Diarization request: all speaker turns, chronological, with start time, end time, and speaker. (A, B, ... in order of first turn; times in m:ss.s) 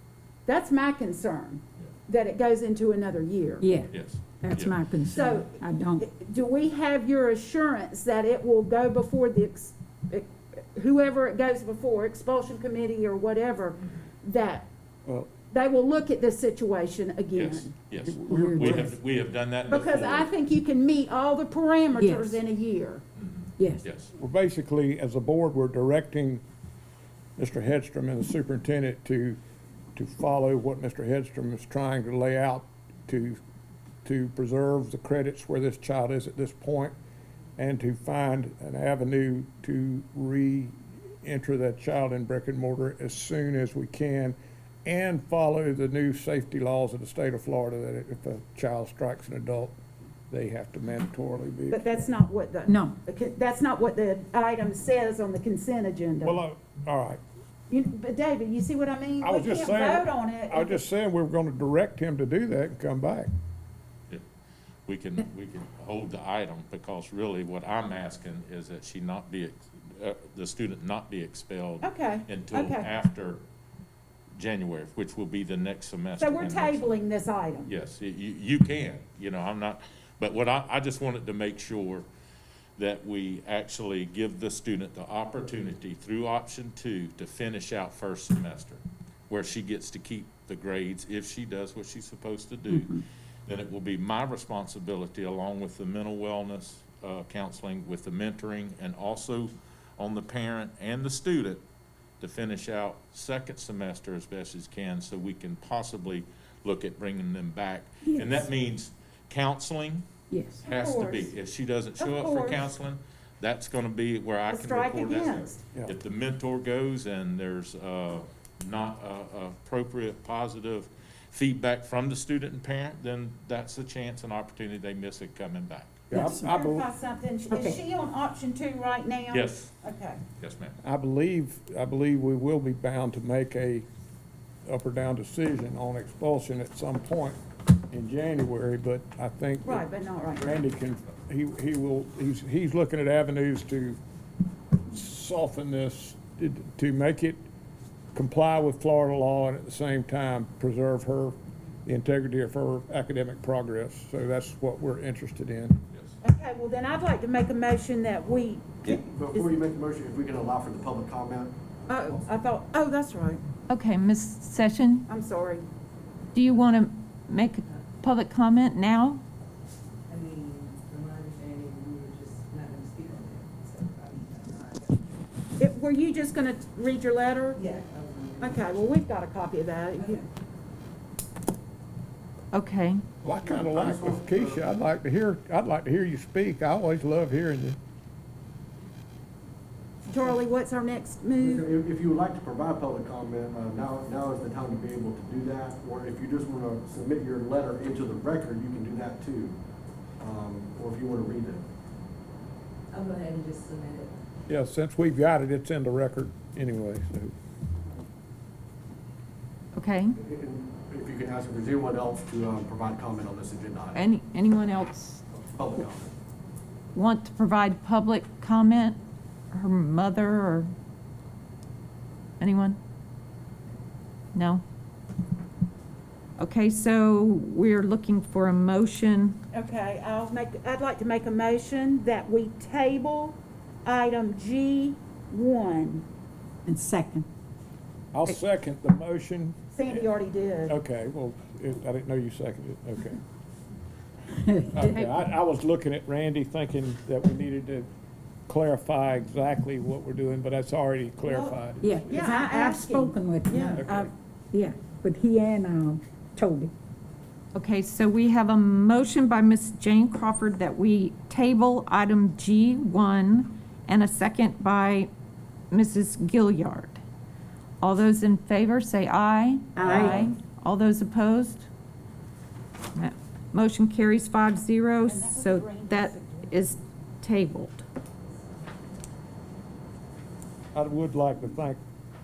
0:00.5-0:03.7 A
0:03.6-0:06.1 B
0:03.9-0:04.8 C
0:05.1-0:14.7 A
0:15.5-0:17.7 A
0:17.4-0:20.3 C
0:18.0-0:18.9 D
0:18.3-0:18.8 B
0:19.7-0:23.0 A
0:21.9-0:22.4 B
0:23.2-0:24.1 C
0:23.6-0:23.8 B
0:24.2-0:26.4 D
0:27.4-0:29.4 D
0:30.0-0:33.4 D
0:34.0-0:37.0 D
0:37.6-0:49.8 D
0:50.3-0:52.1 D
0:51.7-0:56.4 A
0:52.7-0:53.0 B
0:56.2-0:57.2 D
0:57.7-1:00.8 A
0:59.2-1:03.3 D
1:04.9-1:13.4 C
1:11.8-1:12.9 A
1:14.4-1:16.9 C
1:16.2-1:17.7 A
1:17.7-1:22.1 C
1:22.8-1:41.6 C
1:42.2-1:50.0 C
1:48.1-1:48.4 B
1:50.3-1:50.7 B
1:50.6-1:51.3 A
1:50.6-2:06.0 C
1:52.0-1:52.7 A
1:54.5-1:55.6 A
2:06.1-2:06.9 D
2:06.1-2:06.5 B
2:06.2-2:10.2 A
2:07.5-2:07.8 B
2:09.3-2:09.8 C
2:10.4-2:10.8 C
2:10.8-2:13.9 D
2:14.6-2:24.0 D
2:19.6-2:20.6 A
2:24.9-2:27.4 D
2:28.2-2:35.8 D
2:36.2-2:39.6 A
2:38.8-2:42.4 E
2:41.9-2:43.4 A
2:43.7-2:45.1 F
2:45.1-2:45.7 A
2:46.3-2:49.2 F
2:50.1-2:55.0 G
2:55.6-2:57.6 A
2:57.6-2:58.6 G
2:58.4-3:00.2 A
3:00.0-3:00.2 G
3:02.5-3:03.0 F
3:03.2-3:07.8 D
3:03.4-3:04.7 E
3:10.1-3:11.7 A
3:11.4-3:19.6 E
3:20.2-3:21.6 E
3:22.9-3:24.2 G
3:24.5-3:27.3 D
3:29.7-3:30.2 F
3:30.2-3:34.0 E
3:33.9-3:35.2 F
3:35.3-3:36.1 E
3:36.9-3:39.0 F
3:39.5-3:40.7 F
3:42.4-3:42.8 F
3:44.3-3:44.6 F
3:46.4-3:49.4 F
3:49.5-3:56.0 A
3:56.7-3:57.3 B
3:58.1-4:00.1 D
3:59.7-4:00.8 A
4:00.7-4:03.2 D
4:04.4-4:04.8 B
4:04.7-4:07.9 D
4:08.5-4:12.0 D
4:11.2-4:14.1 A
4:11.8-4:13.8 B
4:13.8-4:14.1 D
4:14.5-4:16.7 B
4:17.5-4:25.1 F
4:25.7-4:27.0 F
4:27.8-4:31.7 F
4:29.8-4:30.3 A
4:33.0-4:37.8 F
4:35.1-4:36.6 A
4:40.7-4:41.8 D